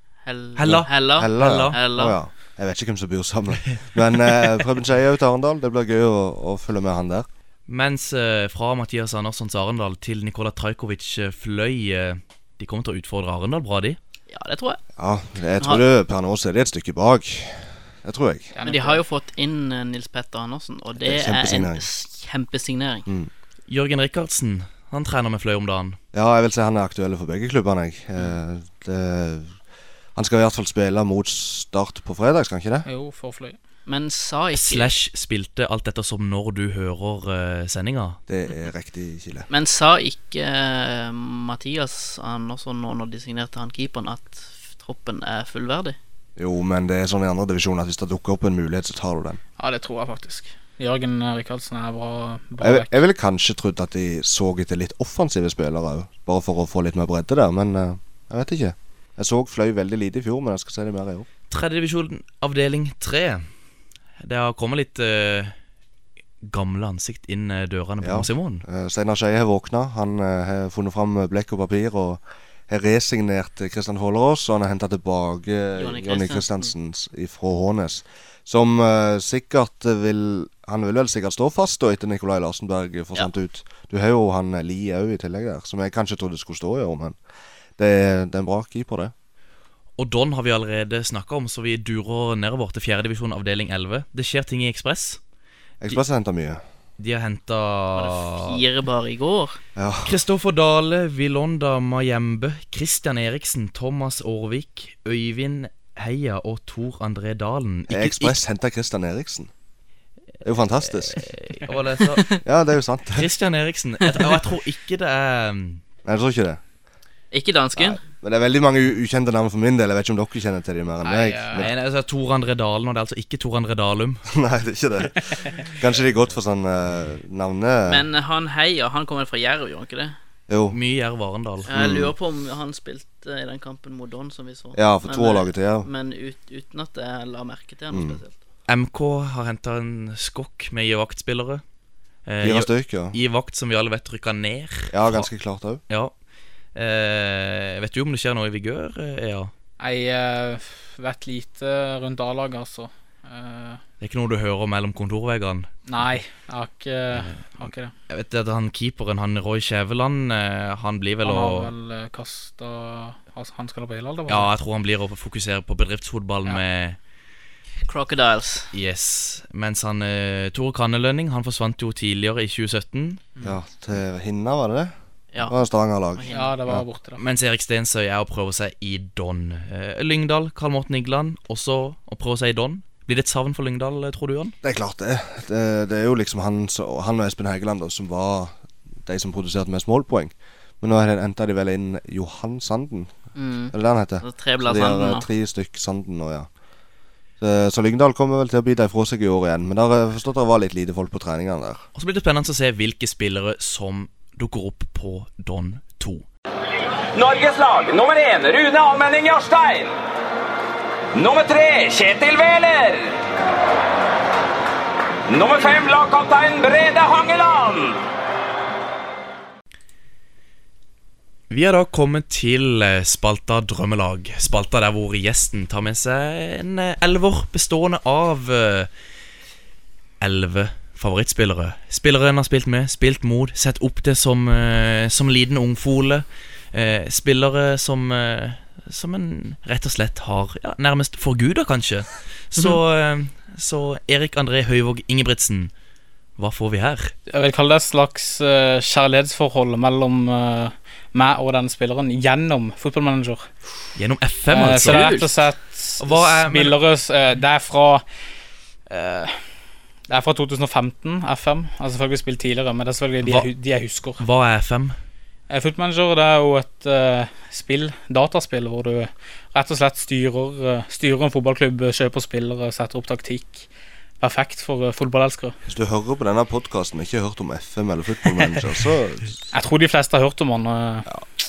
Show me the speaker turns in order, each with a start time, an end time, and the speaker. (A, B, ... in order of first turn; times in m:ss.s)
0:00.2-0:02.2 A
0:00.6-0:01.8 B
0:00.6-0:07.2 C
0:07.7-0:14.0 B
0:14.3-0:14.8 A
0:15.0-0:18.5 C
0:18.5-0:19.0 D
0:18.6-0:23.1 A
0:21.0-0:21.8 C
0:23.7-0:26.0 B
0:26.1-0:29.5 C
0:30.1-0:32.9 C
0:32.8-0:33.6 D
0:33.9-0:34.9 A
0:34.5-0:38.2 B
0:38.3-0:39.5 C
0:39.5-0:46.0 A
0:46.4-0:49.4 C
0:49.6-0:53.0 D
0:52.6-1:01.3 C
1:01.5-1:03.4 B
1:04.2-1:05.5 B
1:06.4-1:08.6 B
1:08.0-1:27.2 C
1:15.8-1:16.7 A
1:27.8-1:29.1 C
1:30.0-1:35.2 B
1:35.8-1:36.6 C
1:37.0-1:38.6 B
1:38.0-1:39.6 A
1:39.8-1:40.2 C
1:40.0-1:48.4 B
1:47.9-1:49.5 C
1:50.4-1:51.3 C
1:51.0-1:52.4 B
1:52.4-1:53.3 C
1:53.1-1:55.8 B
1:56.0-1:56.6 C
1:57.3-1:58.0 A
1:57.8-2:01.7 C
2:01.0-2:01.6 D
2:01.6-2:04.2 B
2:04.3-2:08.0 C
2:07.9-2:10.1 A
2:10.5-2:10.8 C
2:10.7-2:11.7 B
2:11.7-2:18.3 A
2:11.7-2:12.1 C
2:14.7-2:15.9 C
2:17.9-2:18.2 C
2:18.7-2:21.6 B
2:22.2-2:25.3 B
2:22.4-2:23.1 C
2:24.9-2:25.8 C
2:26.7-2:29.5 B
2:29.8-2:33.8 D
2:34.0-2:35.7 B
2:35.9-2:37.9 D
2:37.1-2:41.7 B
2:41.2-2:44.5 D
2:44.3-2:47.0 B
2:47.8-2:48.7 A
2:48.7-2:53.3 B
2:53.4-2:56.8 C
2:55.3-2:55.6 A
2:56.1-2:56.5 A
2:56.3-2:57.2 D
2:57.2-3:04.5 B
3:04.6-3:08.5 C
3:09.0-3:13.1 C
3:13.3-3:15.3 A
3:13.7-3:16.5 C
3:17.4-3:21.8 C
3:21.9-3:26.2 B
3:27.1-3:29.9 E
3:31.1-3:33.2 E
3:35.3-3:38.0 E
3:41.5-3:48.9 B
3:50.2-4:05.7 B
4:06.4-4:07.1 B
4:07.3-4:13.5 D
4:14.0-4:15.2 B
4:14.5-4:18.0 D
4:16.0-4:16.8 B
4:18.9-4:19.4 D
4:20.1-4:24.2 D
4:23.2-4:23.5 B
4:24.2-4:24.9 B
4:25.5-4:33.7 D
4:34.2-4:35.5 D
4:35.6-4:39.4 C
4:39.5-4:41.1 D